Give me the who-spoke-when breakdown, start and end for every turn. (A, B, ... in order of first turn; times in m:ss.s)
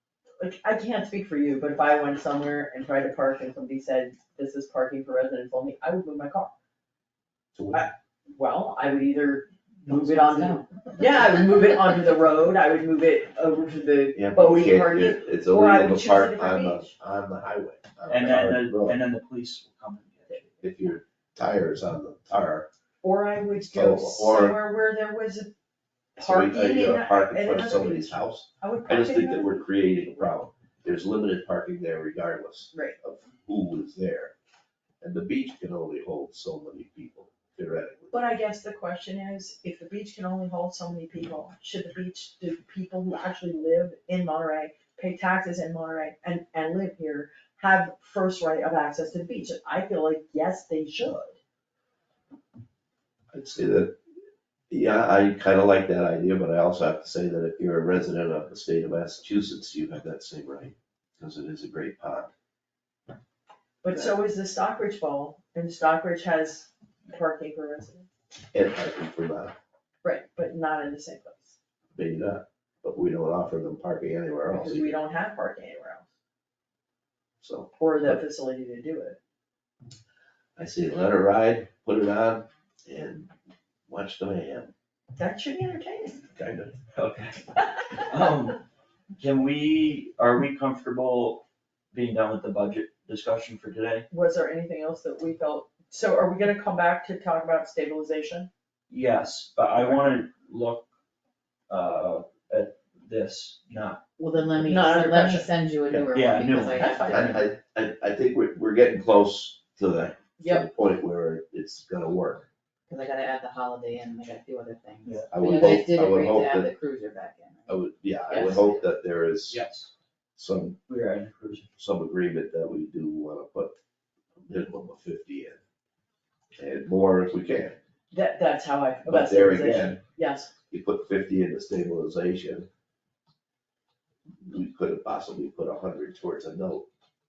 0:00.4-0:06.5 A
0:07.5-0:07.9 B
0:07.7-0:16.9 A
0:09.9-0:10.7 C
0:14.1-0:19.0 B
0:18.1-0:20.6 D
0:20.6-0:22.7 B
0:23.0-0:25.5 A
0:23.7-0:24.6 B
0:26.2-0:29.7 A
0:26.2-0:34.3 B
0:35.0-0:38.2 B
0:38.1-0:51.4 A
0:53.3-0:54.0 B
0:54.7-1:02.3 B
1:03.8-1:08.1 A
1:08.5-1:09.5 B
1:10.0-1:11.6 A
1:11.9-1:14.9 B
1:14.5-1:16.0 A
1:17.4-1:18.2 B
1:17.7-1:19.2 A
1:20.6-1:23.3 B
1:23.9-1:24.7 B
1:25.2-1:26.2 A
1:26.3-1:26.8 B
1:26.9-1:28.6 D
1:29.2-1:34.0 D
1:34.1-1:38.5 A
1:38.9-1:40.8 D
1:41.7-1:44.0 D
1:44.2-1:47.4 C
1:44.6-1:45.5 A
1:46.1-1:46.9 D
1:46.7-1:47.5 A
1:47.1-1:52.4 B
1:50.4-1:50.6 A
1:52.9-1:58.8 C
1:55.0-1:55.4 D
1:55.3-1:56.7 B
1:57.7-1:59.6 B
1:59.5-1:59.9 D
2:00.4-2:00.8 B
2:00.9-2:01.7 D
2:01.8-2:03.8 B
2:04.4-2:05.6 B
2:06.6-2:07.8 B
2:08.1-2:10.5 A
2:09.0-2:10.0 B
2:10.7-2:12.7 B
2:14.4-2:16.8 B